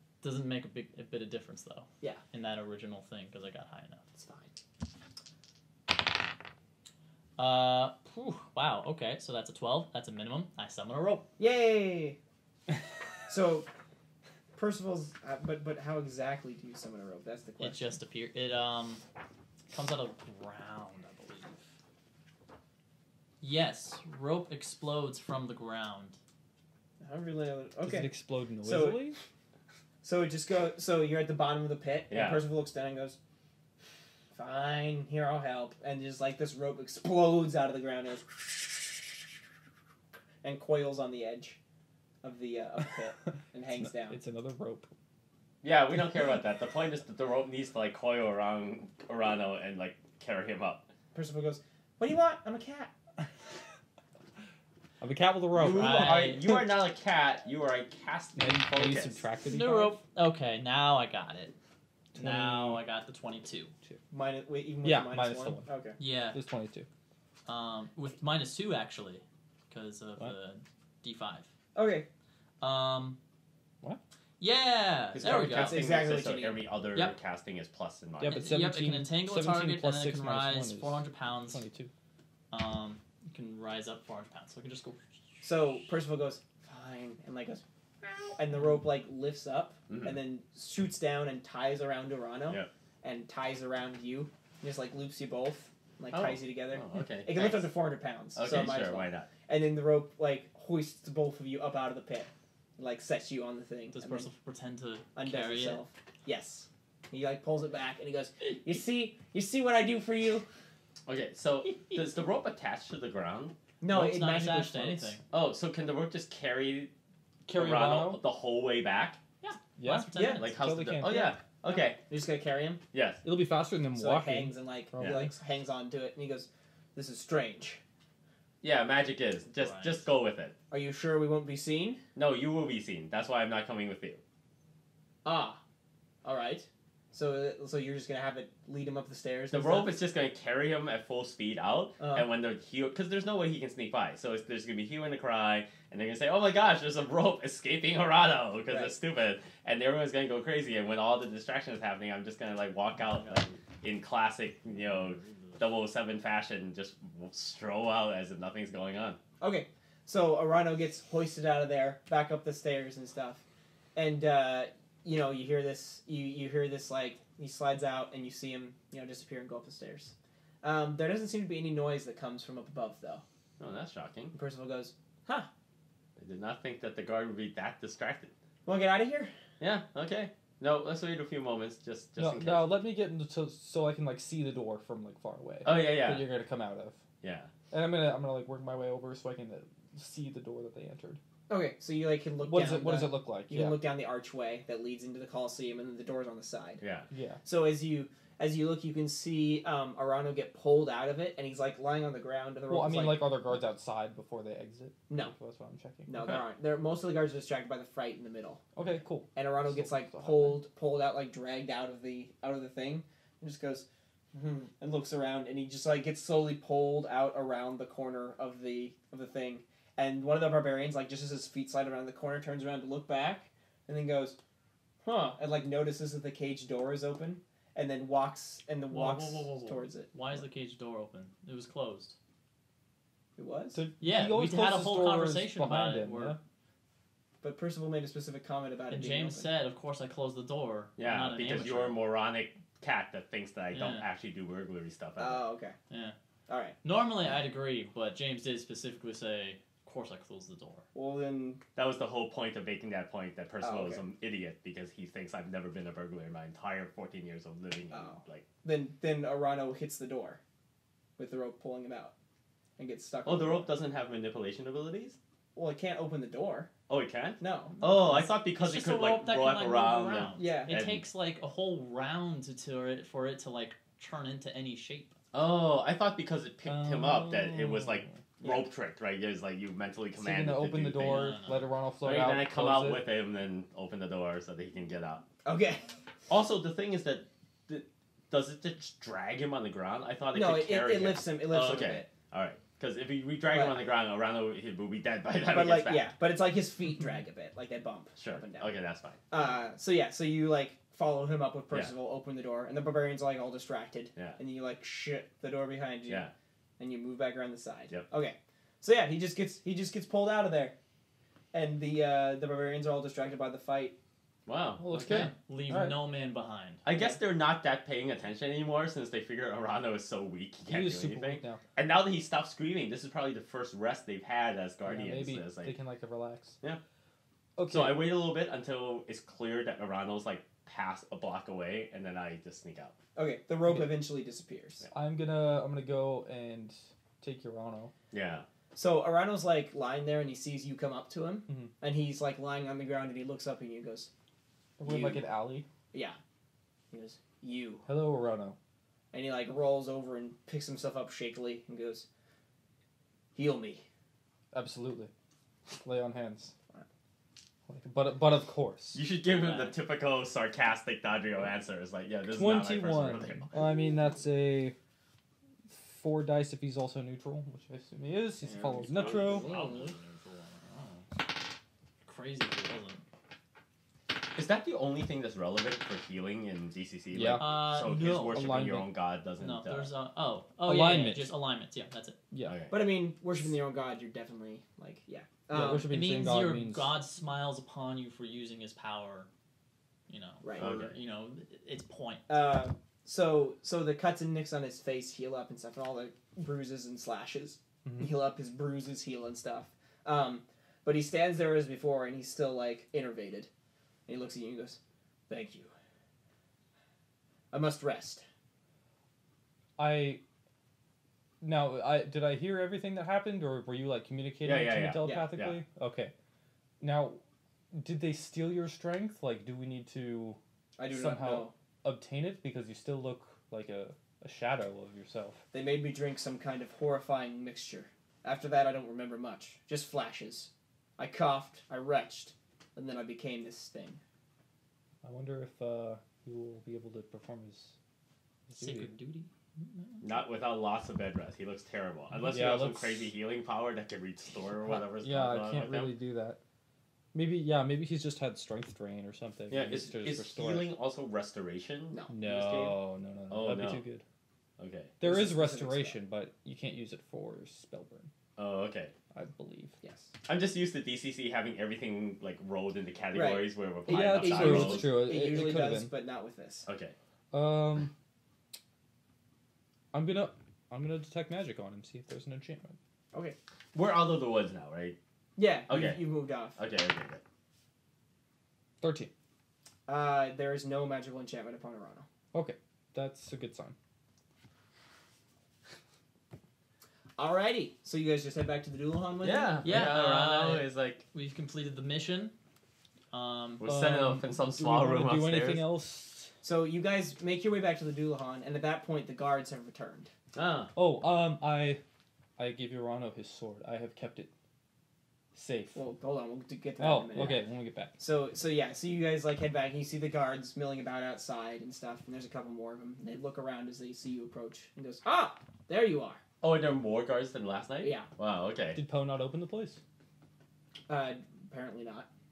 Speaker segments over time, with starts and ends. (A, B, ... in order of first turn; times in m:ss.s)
0:00.2-0:04.0 A
0:04.2-0:04.5 B
0:07.4-0:11.3 A
0:11.4-0:12.2 B
0:13.3-0:13.7 B
0:14.6-0:17.8 B
0:17.6-0:19.0 A
0:19.7-0:21.6 A
0:23.4-0:26.2 A
0:27.0-0:28.1 B
0:27.8-0:29.2 C
0:28.6-0:29.2 B
0:30.0-0:33.2 B
0:32.1-0:32.4 D
0:34.3-0:39.2 B
0:40.4-0:41.6 B
0:42.2-0:44.2 B
0:43.3-0:44.9 C
0:45.6-0:50.9 D
0:51.1-0:52.9 B
0:55.0-0:56.7 C
0:55.5-0:59.2 D
0:55.7-0:56.4 A
0:58.4-1:00.0 C
0:59.4-1:01.5 A
1:02.1-1:02.8 C
1:02.2-1:03.7 A
1:04.1-1:06.0 B
1:04.8-1:05.7 C
1:06.0-1:06.4 A
1:06.3-1:06.9 C
1:07.5-1:11.5 A
1:11.8-1:12.1 B
1:12.6-1:13.2 A
1:14.4-1:15.8 A
1:15.1-1:18.6 D
1:15.3-1:16.7 B
1:16.9-1:17.2 A
1:18.2-1:21.9 C
1:18.2-1:21.6 A
1:22.5-1:25.0 A
1:25.4-1:44.3 B
1:29.9-1:30.2 D
1:36.1-1:37.8 D
1:38.3-1:39.3 D
1:43.9-1:45.8 A
1:45.2-1:50.5 B
1:51.1-1:53.6 D
1:53.8-1:55.2 B
1:53.9-1:55.2 A
1:55.3-1:56.9 D
1:57.5-1:58.2 C
1:57.5-1:59.2 D
1:59.4-2:00.5 A
1:59.8-2:01.4 C
2:00.1-2:00.4 B
2:00.3-2:02.0 D
2:01.7-2:02.8 B
2:02.9-2:03.2 D
2:03.2-2:05.3 C
2:03.9-2:07.8 B
2:05.0-2:05.2 D
2:08.6-2:10.5 D
2:09.6-2:10.1 A
2:10.7-2:12.0 B
2:12.2-2:14.2 D
2:15.2-2:15.6 B
2:16.2-2:20.0 B
2:19.5-2:39.2 D
2:22.0-2:22.3 B
2:28.7-2:29.0 B
2:39.4-2:43.4 B
2:44.0-2:53.2 B
2:53.6-2:54.3 D
2:54.3-2:55.5 B
2:56.2-2:58.3 D
2:58.7-2:59.3 B
2:59.6-3:02.8 D
3:02.2-3:07.0 C
3:05.6-3:06.3 D
3:07.2-3:07.5 D
3:07.7-3:11.2 C
3:11.5-3:16.8 B
3:12.4-3:13.8 C
3:16.8-3:17.1 D
3:17.1-3:17.4 C
3:17.4-3:23.4 B
3:22.7-3:26.3 C
3:25.1-3:25.3 B
3:26.1-3:28.6 B
3:28.8-3:30.6 C
3:29.3-3:44.4 B
3:45.0-3:50.1 B
3:48.9-3:52.2 A
3:53.4-3:53.8 B
3:53.7-3:56.4 C
3:54.0-3:56.4 A
3:57.4-3:59.5 B
3:58.9-4:02.0 A
4:01.0-4:05.4 D
4:03.7-4:04.1 A
4:05.2-4:05.8 B
4:05.9-4:06.2 A
4:06.5-4:06.8 B
4:06.8-4:10.8 A
4:10.9-4:11.6 B
4:11.8-4:18.5 D
4:13.6-4:14.0 B
4:17.9-4:20.4 B
4:21.2-4:22.1 B
4:22.8-4:23.7 B
4:23.2-4:25.2 D
4:25.6-4:26.7 B
4:26.9-4:31.0 D
4:27.4-4:27.8 B
4:27.8-4:35.1 A
4:30.4-4:30.8 B
4:35.3-4:41.4 D
4:36.7-4:38.2 C
4:40.2-4:43.1 C
4:41.1-4:41.8 A
4:42.0-4:45.2 D
4:45.4-4:45.9 B
4:46.3-4:56.1 D
4:50.3-4:52.1 B
4:53.5-4:53.9 B
4:55.5-4:58.7 B
4:58.2-4:59.2 D
4:59.3-5:10.8 B
5:06.1-5:06.3 D
5:11.5-5:14.0 B
5:14.5-5:15.3 D
5:14.8-5:16.0 C
5:15.0-5:16.8 A
5:16.8-5:25.7 D
5:17.0-5:17.2 B
5:20.7-5:21.6 C
5:24.8-5:26.6 C
5:27.6-5:28.0 C
5:27.7-5:33.0 D
5:33.2-5:34.9 B
5:33.7-5:34.0 C
5:34.9-5:37.9 C
5:38.1-5:38.5 D
5:38.7-5:44.1 B
5:44.8-5:45.7 C
5:44.8-5:45.2 B
5:45.9-5:46.2 B
5:46.9-5:47.9 B
5:47.9-5:48.6 C
5:49.1-5:52.1 B
5:53.4-5:53.8 B
5:54.5-5:55.1 C
5:55.8-5:56.5 C
5:57.7-5:59.0 C
5:58.9-6:03.5 D
5:59.3-5:59.7 B
6:02.3-6:04.8 C
6:05.7-6:09.5 C
6:08.4-6:10.0 B
6:09.0-6:10.0 D
6:09.4-6:11.2 A
6:12.0-6:13.0 A
6:14.2-6:19.9 D
6:17.1-6:17.5 C
6:17.4-6:18.4 A
6:18.3-6:18.9 C
6:19.4-6:22.2 A
6:20.7-6:21.4 C
6:22.3-6:22.6 C
6:22.4-6:22.8 D
6:22.7-6:25.9 B
6:25.5-6:27.0 C
6:25.9-6:29.3 A
6:30.1-6:32.4 A
6:30.4-6:30.8 B
6:30.6-6:31.0 D
6:32.3-6:43.5 B
6:37.9-6:38.1 C
6:44.1-6:45.7 B
6:47.5-6:48.2 B
6:49.8-6:50.2 C
6:51.4-6:56.1 C
6:54.4-6:55.6 D
6:55.0-6:55.3 B
6:56.8-6:57.2 C
6:57.7-7:05.4 C
7:00.8-7:01.5 B
7:05.5-7:14.0 B
7:15.0-7:17.8 C
7:18.5-7:18.9 C
7:18.5-7:20.1 A
7:20.0-7:26.0 D
7:22.2-7:23.1 C
7:24.6-7:26.4 C
7:27.1-7:30.7 C
7:29.5-7:33.8 D
7:32.1-7:34.0 C
7:34.6-7:35.0 D
7:35.0-7:38.1 C
7:35.0-7:36.0 B
7:38.4-7:38.9 D
7:39.1-7:39.8 C
7:39.8-7:40.1 B
7:40.3-7:45.0 D
7:43.1-7:46.7 B
7:43.9-7:45.9 C
7:46.7-7:47.0 D
7:47.3-7:47.9 C
7:49.9-7:52.8 C
7:53.7-7:55.0 D
7:55.4-7:56.6 B
7:55.7-7:57.2 D
7:58.8-7:59.1 C
7:59.9-8:02.1 B
8:02.3-8:03.8 C
8:07.2-8:09.6 B
8:09.2-8:11.0 D
8:09.6-8:12.4 A
8:13.1-8:13.7 A
8:13.6-8:15.7 D
8:13.6-8:16.3 C
8:16.4-8:20.1 B
8:20.3-8:20.7 D
8:20.8-8:21.8 C
8:22.4-8:24.3 C
8:25.4-8:25.8 C
8:25.7-8:27.5 B
8:26.8-8:28.0 C
8:28.0-8:36.2 B
8:36.4-8:38.8 D
8:37.8-8:38.1 B
8:38.8-8:39.8 C
8:40.9-8:42.1 B